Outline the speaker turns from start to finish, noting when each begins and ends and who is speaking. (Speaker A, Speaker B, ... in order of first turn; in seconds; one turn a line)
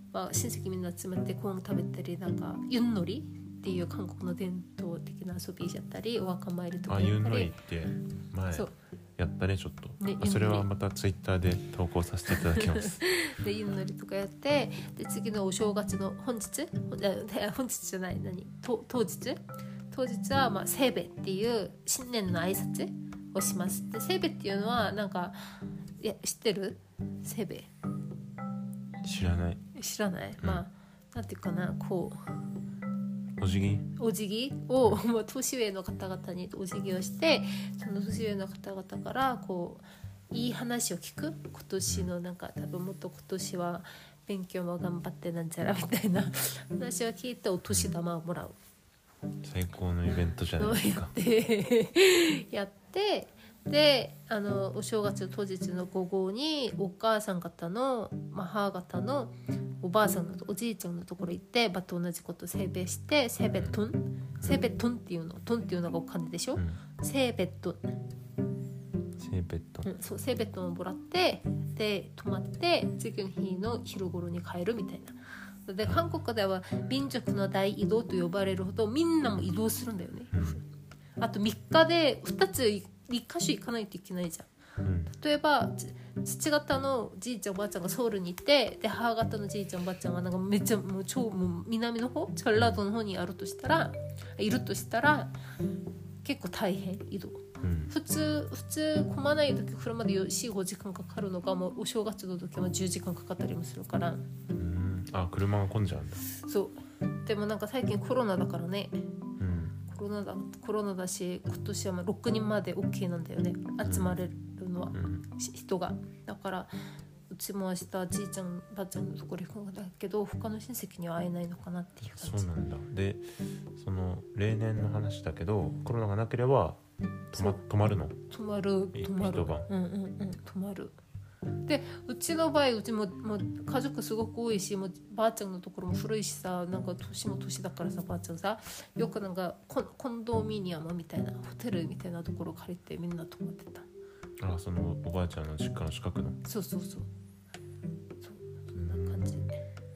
Speaker A: 0.1-7.6
Speaker B: 6.9-13.1
Speaker A: 10.0-10.7
Speaker A: 12.6-27.7
Speaker B: 29.0-29.6
Speaker A: 29.7-32.2
Speaker B: 33.4-33.9
Speaker A: 34.0-48.6
Speaker B: 41.9-42.1
Speaker B: 47.7-47.9
Speaker B: 49.4-51.1
Speaker A: 50.6-67.9
Speaker B: 69.2-69.9
Speaker A: 69.8-80.6
Speaker B: 80.3-80.6
Speaker A: 81.2-84.5
Speaker B: 84.8-85.1
Speaker A: 85.1-95.4
Speaker B: 92.5-92.8
Speaker A: 96.2-104.3
Speaker B: 97.6-97.9
Speaker B: 104.5-106.3
Speaker A: 106.3-109.1
Speaker B: 109.4-109.8
Speaker A: 109.9-116.7
Speaker B: 113.8-114.2
Speaker B: 114.9-115.3
Speaker A: 117.3-122.5
Speaker B: 122.0-126.8
Speaker B: 127.3-128.2
Speaker A: 127.3-127.7
Speaker A: 128.3-131.0
Speaker B: 128.9-129.7
Speaker A: 131.7-143.9
Speaker B: 144.4-146.4
Speaker A: 146.4-147.1
Speaker A: 148.2-149.6
Speaker B: 148.8-149.5